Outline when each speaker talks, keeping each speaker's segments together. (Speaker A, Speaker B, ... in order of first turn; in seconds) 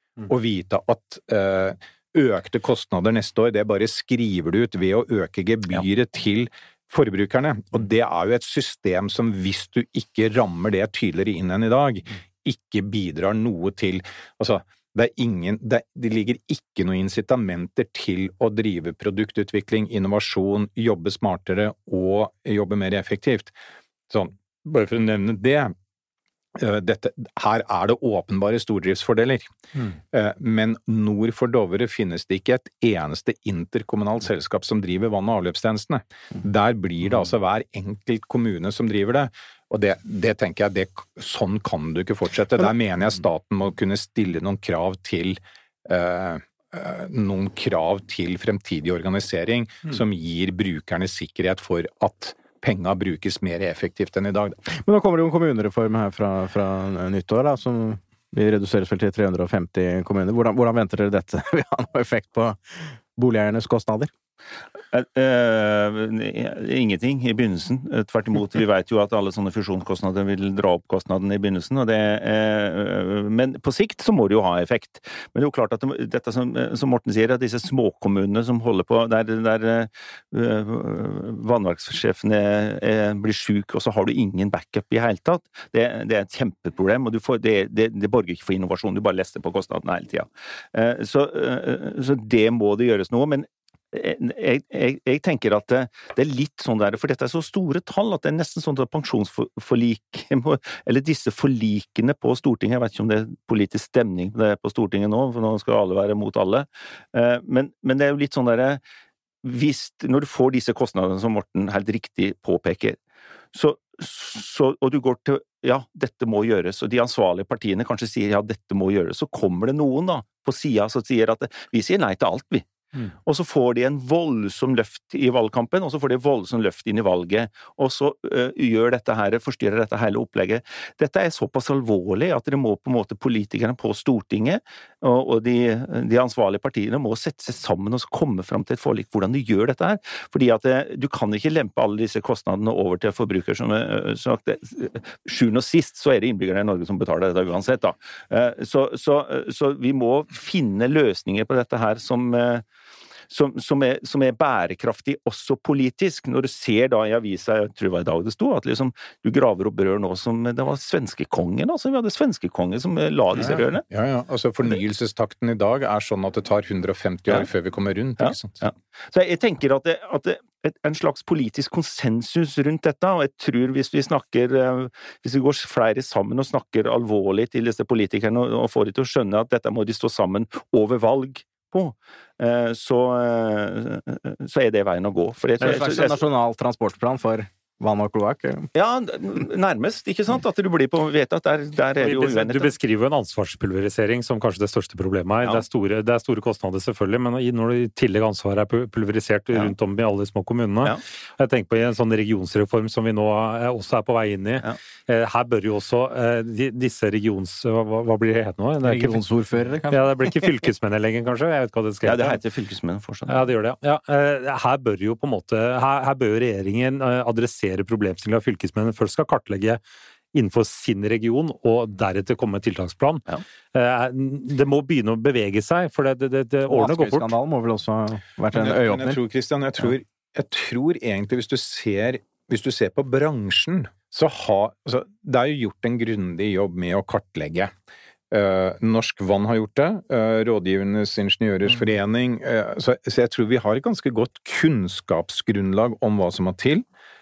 Speaker A: 0.2-23.5, 24.1-25.7, 26.6-29.5, 30.1-54.6, 163.4-168.6, 228.5-237.7, 238.3-246.8
Speaker B: 54.7-64.1, 185.6-188.7, 208.8-210.5, 226.7-229.2
Speaker C: 64.9-108.8, 109.4-113.0, 113.5-122.7, 123.3-152.6, 153.3-163.8, 168.2-186.2, 188.7-192.7, 212.0-213.5
Speaker D: 192.0-209.2, 209.9-212.4, 213.3-219.8, 220.3-227.3